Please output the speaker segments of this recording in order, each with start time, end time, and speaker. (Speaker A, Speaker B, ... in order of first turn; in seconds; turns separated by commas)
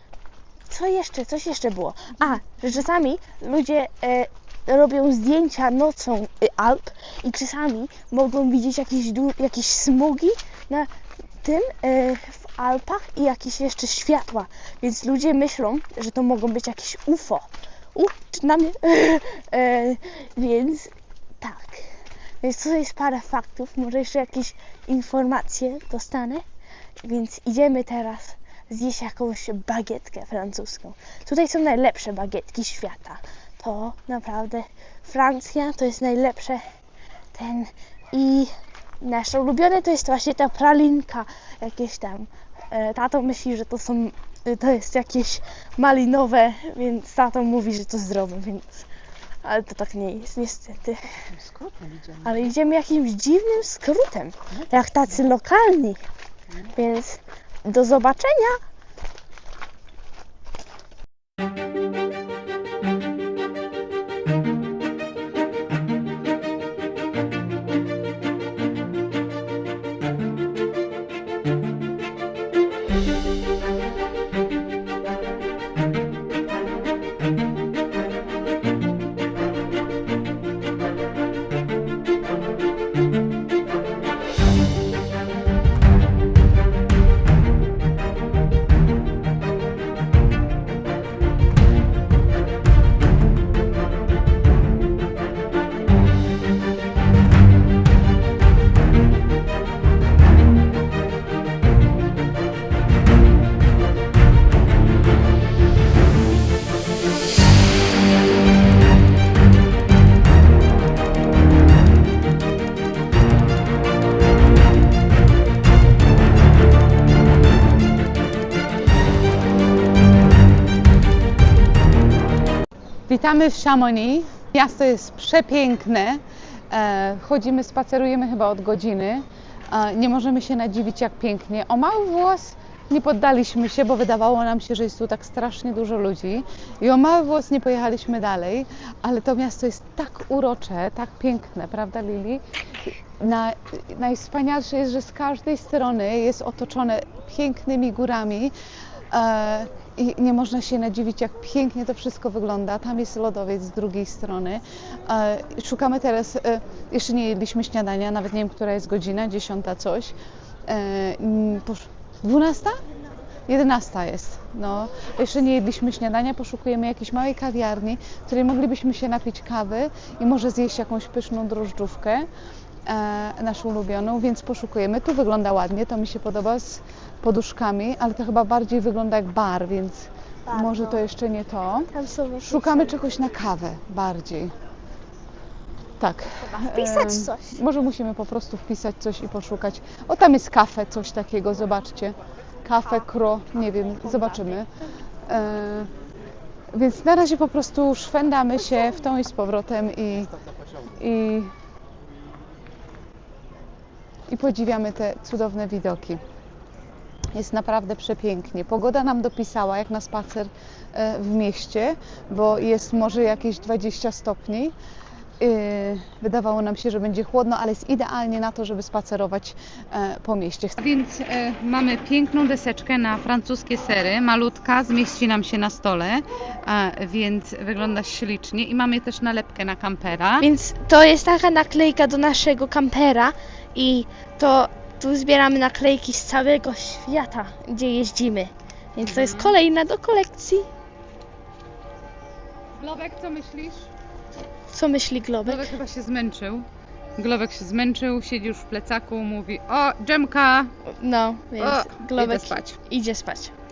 Speaker A: 0.7-10.9, Speaker A: 11.4-26.4, Speaker A: 27.0-36.6, Speaker A: 37.3-48.9, Speaker A: 49.4-51.2, Speaker B: 51.7-52.1, Speaker A: 52.2-56.0, Speaker A: 56.7-58.6, Speaker B: 123.1-148.5, Speaker B: 149.1-160.1, Speaker B: 160.7-162.8, Speaker B: 163.5-172.3, Speaker B: 172.8-181.9, Speaker A: 180.4-181.0, Speaker A: 181.9-183.0, Speaker B: 182.4-184.5, Speaker B: 186.0-194.7, Speaker A: 186.4-187.6, Speaker A: 194.1-194.6, Speaker B: 195.3-195.9, Speaker B: 196.7-200.3, Speaker B: 200.9-201.5, Speaker B: 204.3-206.2, Speaker B: 207.3-214.7, Speaker B: 215.4-230.4, Speaker A: 230.4-240.7, Speaker B: 239.0-239.6, Speaker B: 242.8-243.8, Speaker A: 244.7-245.7, Speaker B: 245.4-246.7, Speaker B: 247.2-250.7, Speaker A: 250.8-253.5, Speaker B: 251.6-252.8